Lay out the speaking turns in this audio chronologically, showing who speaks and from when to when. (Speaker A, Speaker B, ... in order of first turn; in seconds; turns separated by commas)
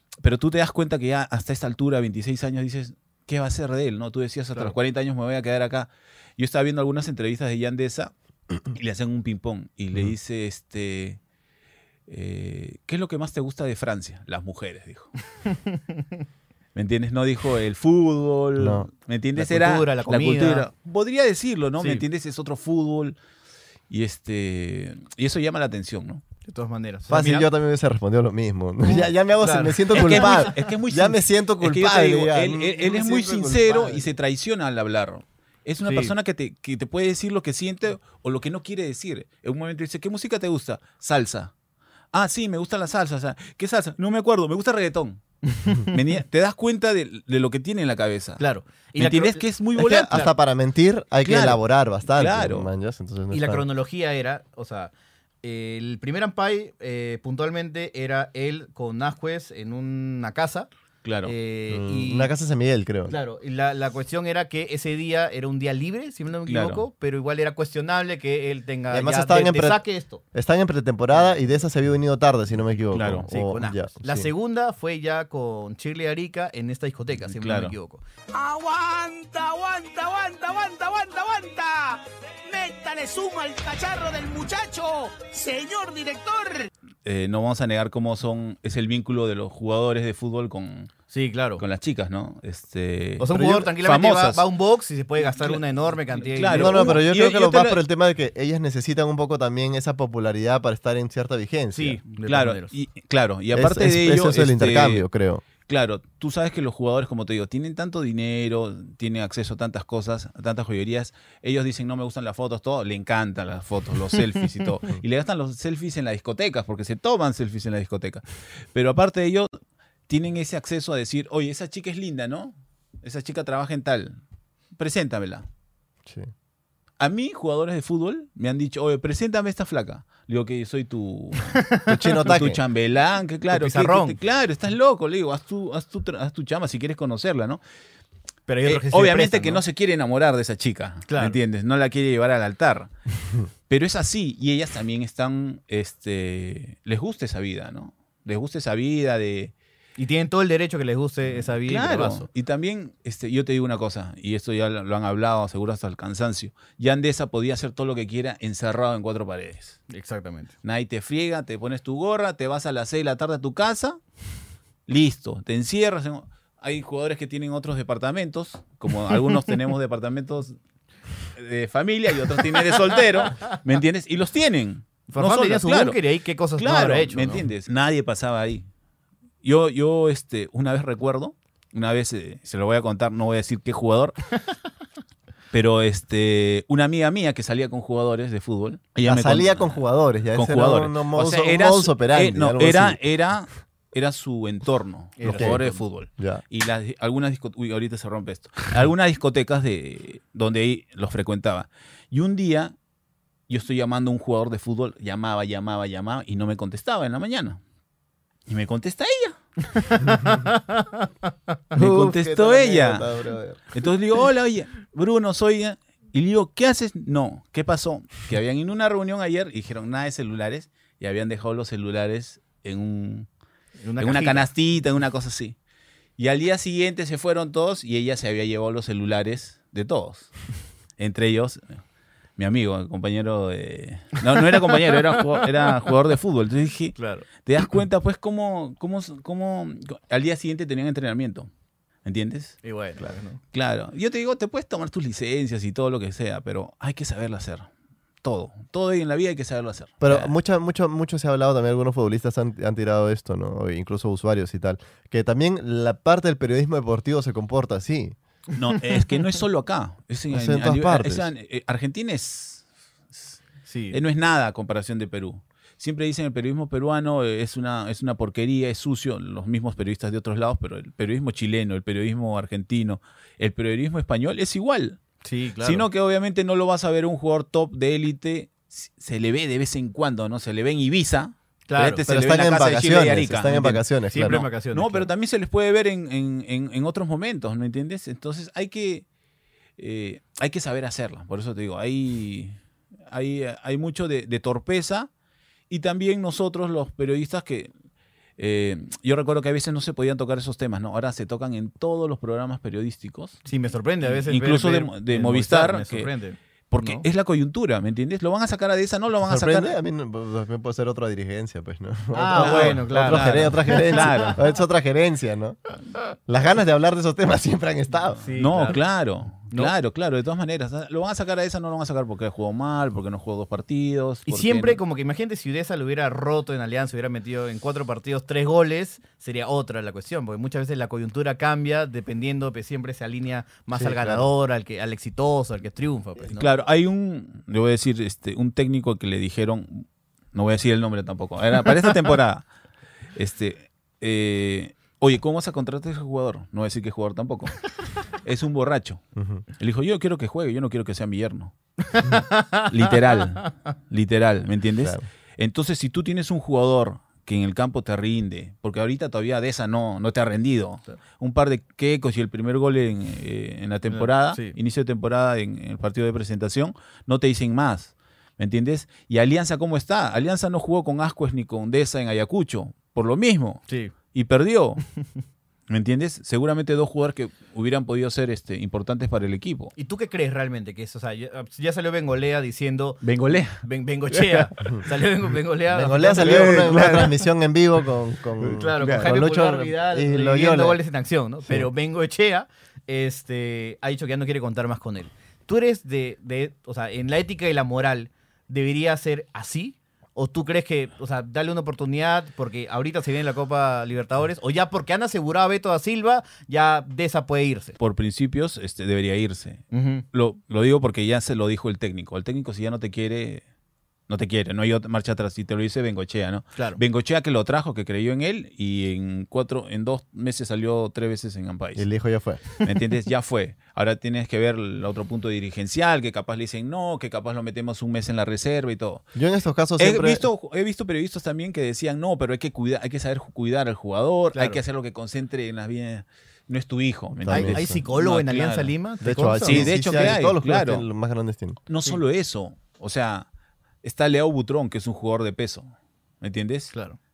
Speaker A: 0.2-8.1, Speaker A: 8.7-11.2, Speaker A: 12.1-15.1, Speaker B: 15.5-16.1, Speaker A: 16.8-23.2, Speaker C: 18.6-18.9, Speaker B: 19.4-20.7, Speaker B: 21.8-22.1, Speaker A: 23.9-26.2, Speaker B: 26.5-27.5, Speaker C: 27.1-34.1, Speaker B: 28.8-30.5, Speaker A: 29.9-41.5, Speaker B: 35.8-36.1, Speaker A: 42.1-45.2, Speaker B: 45.5-46.0, Speaker A: 45.9-48.4, Speaker B: 48.4-50.3, Speaker A: 49.0-50.3, Speaker C: 49.8-53.6, Speaker A: 51.2-52.7, Speaker B: 53.3-54.9, Speaker B: 55.4-60.7, Speaker A: 61.0-61.4, Speaker B: 61.2-62.3, Speaker C: 61.7-63.2, Speaker B: 63.1-70.2, Speaker A: 66.5-66.9, Speaker C: 68.9-69.8, Speaker C: 70.3-74.3, Speaker A: 72.9-73.3, Speaker B: 73.3-78.0, Speaker A: 77.3-77.7, Speaker D: 78.3-86.7, Speaker A: 87.0-90.9, Speaker B: 91.1-91.6, Speaker A: 91.6-94.4, Speaker B: 93.2-97.0, Speaker C: 93.3-93.7, Speaker A: 95.2-97.8, Speaker C: 96.5-102.0, Speaker B: 101.7-102.7, Speaker A: 102.2-105.1, Speaker C: 103.5-105.5, Speaker A: 105.6-119.5, Speaker A: 120.1-124.2, Speaker A: 124.8-125.5, Speaker A: 127.0-131.6, Speaker B: 131.6-132.3, Speaker C: 131.9-132.6, Speaker A: 132.2-137.6, Speaker B: 133.5-134.2, Speaker B: 138.5-139.6, Speaker A: 138.7-142.9, Speaker B: 141.1-141.4, Speaker A: 143.7-149.5, Speaker B: 150.0-152.3, Speaker A: 151.4-159.8, Speaker B: 159.9-160.5, Speaker A: 160.6-164.0, Speaker A: 164.9-170.6, Speaker A: 171.4-176.0, Speaker B: 175.1-177.5, Speaker A: 176.6-178.7, Speaker A: 179.4-184.2, Speaker A: 185.5-202.8, Speaker C: 189.0-193.0, Speaker B: 195.2-195.8, Speaker C: 195.2-195.6, Speaker C: 196.2-196.4, Speaker A: 203.5-207.6, Speaker A: 208.5-209.4, Speaker B: 209.8-211.1, Speaker A: 211.7-213.1, Speaker C: 211.7-213.6, Speaker A: 213.7-223.3, Speaker B: 223.8-224.5, Speaker A: 224.0-225.6, Speaker A: 226.2-230.3, Speaker A: 231.0-231.7, Speaker A: 232.4-241.5, Speaker B: 237.0-237.3, Speaker A: 242.1-242.6, Speaker B: 242.6-243.4, Speaker A: 243.5-247.7, Speaker A: 248.2-250.3, Speaker C: 250.0-258.2, Speaker A: 258.6-263.4, Speaker C: 260.3-261.3, Speaker B: 263.7-264.0, Speaker A: 263.9-275.0, Speaker B: 275.2-275.9, Speaker A: 275.6-289.1, Speaker B: 281.7-282.1, Speaker C: 282.1-284.5, Speaker B: 284.1-285.1, Speaker A: 289.8-292.6, Speaker A: 293.1-295.1, Speaker A: 295.7-297.7, Speaker A: 298.4-303.4, Speaker B: 303.4-307.1, Speaker A: 304.0-306.1, Speaker A: 306.7-309.8, Speaker C: 309.2-315.6, Speaker B: 312.1-314.4, Speaker A: 312.3-314.4, Speaker C: 316.3-318.2, Speaker B: 318.2-318.8, Speaker A: 318.3-324.8, Speaker B: 319.4-319.7, Speaker B: 324.3-336.5, Speaker C: 333.7-334.3, Speaker A: 336.2-342.5, Speaker A: 343.2-347.6, Speaker A: 348.2-351.5, Speaker C: 349.2-349.4, Speaker B: 351.9-352.8, Speaker A: 352.7-374.8, Speaker B: 363.9-364.6, Speaker B: 373.7-373.9, Speaker A: 375.7-379.7, Speaker B: 379.8-387.1, Speaker A: 383.0-383.6, Speaker A: 384.1-384.5, Speaker C: 385.7-390.8, Speaker A: 386.1-387.1, Speaker B: 388.4-407.8, Speaker A: 388.8-389.1, Speaker A: 407.8-413.4, Speaker B: 409.7-410.0, Speaker A: 414.1-421.9, Speaker B: 416.6-416.8, Speaker C: 421.8-422.5, Speaker A: 422.6-429.1, Speaker C: 429.1-430.3, Speaker A: 429.8-438.7, Speaker B: 434.3-434.6, Speaker C: 437.2-437.8, Speaker B: 437.3-440.2, Speaker C: 439.0-441.6, Speaker A: 439.4-440.9, Speaker A: 441.7-443.3, Speaker A: 443.8-446.7, Speaker B: 446.7-447.0